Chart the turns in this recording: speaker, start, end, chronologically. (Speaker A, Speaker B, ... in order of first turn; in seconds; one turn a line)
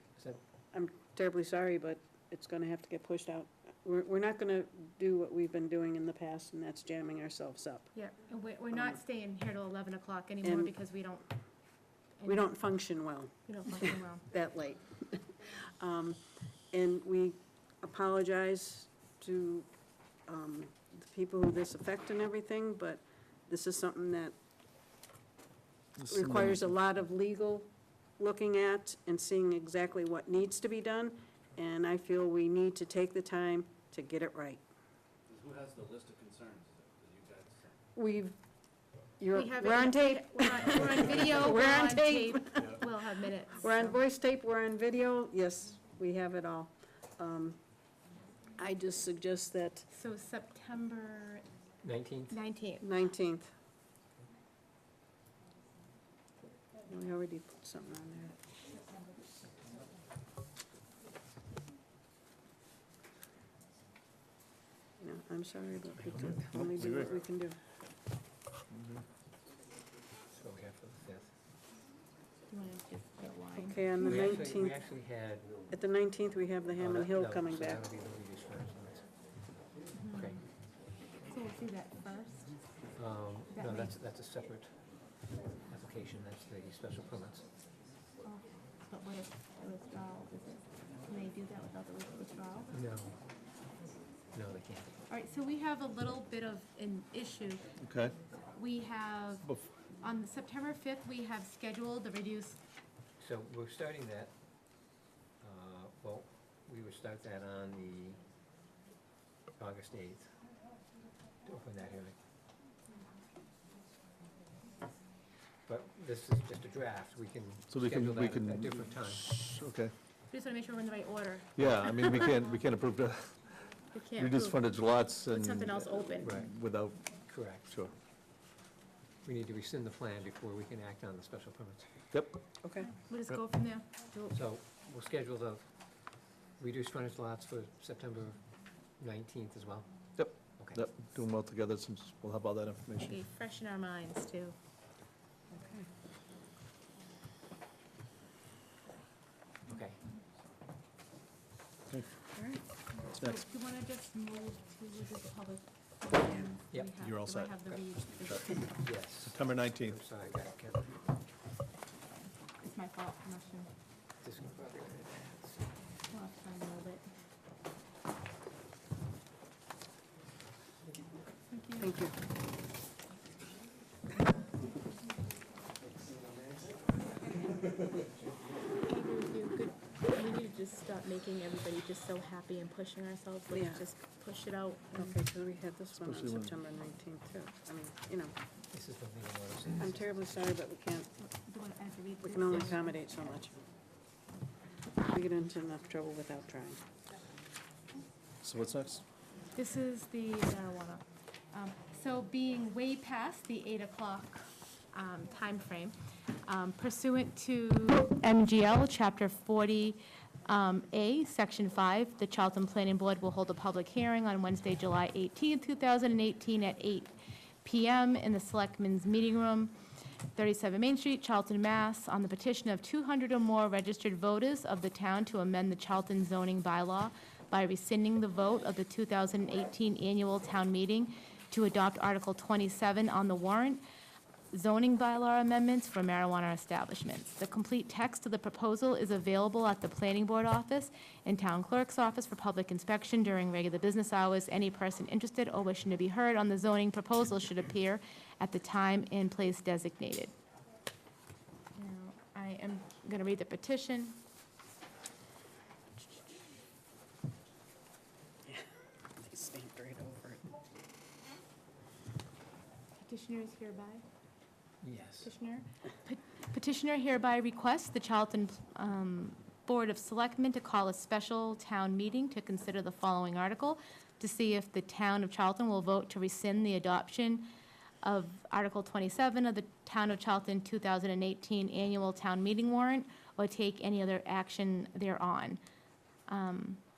Speaker A: 0.7-7.9
Speaker B: 7.9-11.3
Speaker A: 8.7-9.0
Speaker A: 10.4-10.7
Speaker B: 12.2-12.5
Speaker A: 12.3-16.2
Speaker B: 13.5-14.2
Speaker A: 16.7-19.7
Speaker A: 20.3-24.3
Speaker C: 26.0-26.7
Speaker A: 26.1-34.6
Speaker D: 35.3-37.7
Speaker A: 38.0-38.4
Speaker A: 39.2-42.9
Speaker B: 39.3-44.0
Speaker A: 43.6-47.6
Speaker A: 48.6-49.9
Speaker B: 49.9-51.4
Speaker E: 51.8-52.4
Speaker B: 52.3-52.9
Speaker A: 52.8-53.5
Speaker A: 56.9-58.4
Speaker A: 65.0-67.6
Speaker C: 66.1-67.1
Speaker C: 68.7-69.0
Speaker E: 70.3-71.3
Speaker B: 72.5-74.5
Speaker A: 73.6-74.8
Speaker E: 74.0-75.5
Speaker A: 75.7-77.9
Speaker E: 76.8-79.1
Speaker B: 80.0-80.4
Speaker E: 80.1-80.4
Speaker B: 81.3-82.6
Speaker E: 83.0-85.0
Speaker B: 83.5-83.9
Speaker E: 85.7-87.5
Speaker B: 88.2-92.7
Speaker E: 92.7-93.2
Speaker E: 94.3-95.0
Speaker B: 95.1-97.7
Speaker C: 97.8-98.2
Speaker B: 98.5-99.5
Speaker B: 100.0-102.6
Speaker E: 103.2-104.3
Speaker E: 105.4-108.2
Speaker E: 109.6-110.3
Speaker E: 111.4-112.2
Speaker E: 115.7-119.4
Speaker C: 117.7-119.9
Speaker B: 120.3-122.4
Speaker C: 121.6-127.1
Speaker B: 123.9-124.6
Speaker B: 125.3-126.4
Speaker E: 126.2-126.5
Speaker E: 127.3-127.8
Speaker C: 127.6-127.9
Speaker E: 129.2-131.9
Speaker A: 132.6-132.9
Speaker B: 132.9-134.3
Speaker E: 134.3-135.7
Speaker E: 136.6-138.4
Speaker E: 139.0-140.8
Speaker C: 140.2-143.2
Speaker B: 143.0-144.6
Speaker A: 145.5-145.9
Speaker E: 149.7-150.0
Speaker A: 152.3-152.6
Speaker C: 153.1-153.4
Speaker B: 153.1-158.6
Speaker C: 157.0-158.5
Speaker E: 158.8-161.0
Speaker C: 159.2-160.0
Speaker B: 162.1-163.7
Speaker E: 164.2-165.8
Speaker B: 166.1-167.1
Speaker B: 171.5-172.1
Speaker A: 171.8-172.1
Speaker B: 178.9-185.2
Speaker A: 183.5-183.8
Speaker A: 184.9-188.3
Speaker C: 186.0-186.5
Speaker E: 188.7-190.6
Speaker A: 189.8-191.1
Speaker B: 191.2-192.9
Speaker A: 192.2-193.6
Speaker A: 195.0-196.8
Speaker C: 198.4-199.0
Speaker B: 199.5-219.8
Speaker B: 220.4-233.8
Speaker B: 234.5-250.3
Speaker B: 251.8-254.2
Speaker A: 258.5-260.4
Speaker B: 263.0-264.0
Speaker E: 264.8-265.3
Speaker B: 265.2-277.5
Speaker B: 278.0-285.6
Speaker B: 286.3-286.8